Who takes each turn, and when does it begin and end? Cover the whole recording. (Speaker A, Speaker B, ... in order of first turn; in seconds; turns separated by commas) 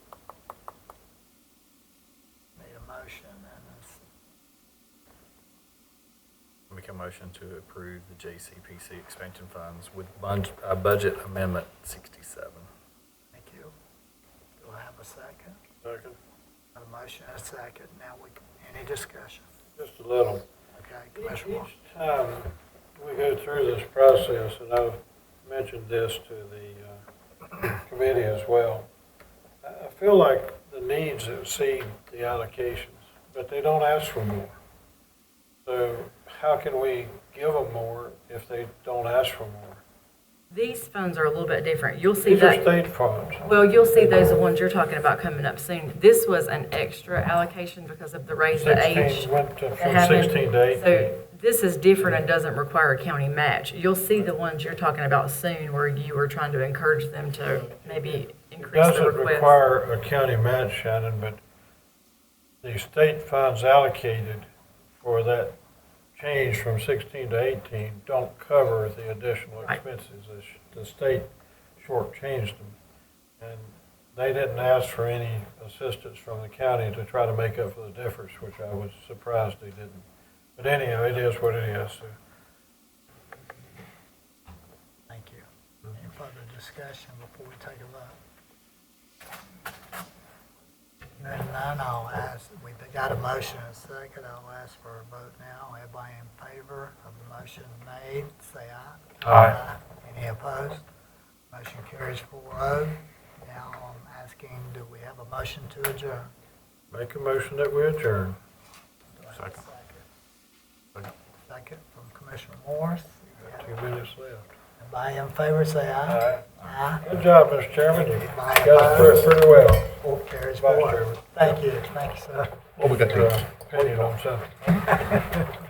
Speaker A: 2.6-4.0, Speaker B: 6.7-12.7, Speaker A: 13.3-13.7, Speaker A: 14.6-15.6, Speaker C: 15.8-16.2, Speaker A: 16.8-19.5, Speaker C: 19.8-20.4, Speaker A: 20.8-21.7, Speaker C: 21.2-27.0, Speaker C: 27.6-28.9, Speaker C: 29.6-34.6, Speaker C: 35.6-39.8, Speaker D: 40.5-42.6, Speaker C: 42.2-44.3, Speaker D: 43.4-59.6, Speaker C: 48.5-51.2, Speaker C: 58.6-61.4, Speaker C: 62.6-64.5, Speaker C: 65.0-65.6, Speaker C: 66.2-72.8, Speaker C: 73.4-80.0, Speaker C: 80.6-82.2, Speaker A: 85.1-88.2, Speaker A: 91.2-100.8, Speaker A: 101.5-106.3, Speaker C: 106.9-108.4, Speaker A: 109.1-110.0, Speaker A: 111.5-113.7, Speaker C: 113.5-114.5, Speaker A: 114.8-117.1, Speaker C: 116.1-116.5, Speaker C: 117.0-120.0, Speaker A: 118.2-119.3, Speaker A: 120.0-122.7, Speaker C: 120.6-121.2, Speaker C: 122.8-125.5, Speaker B: 122.8-123.4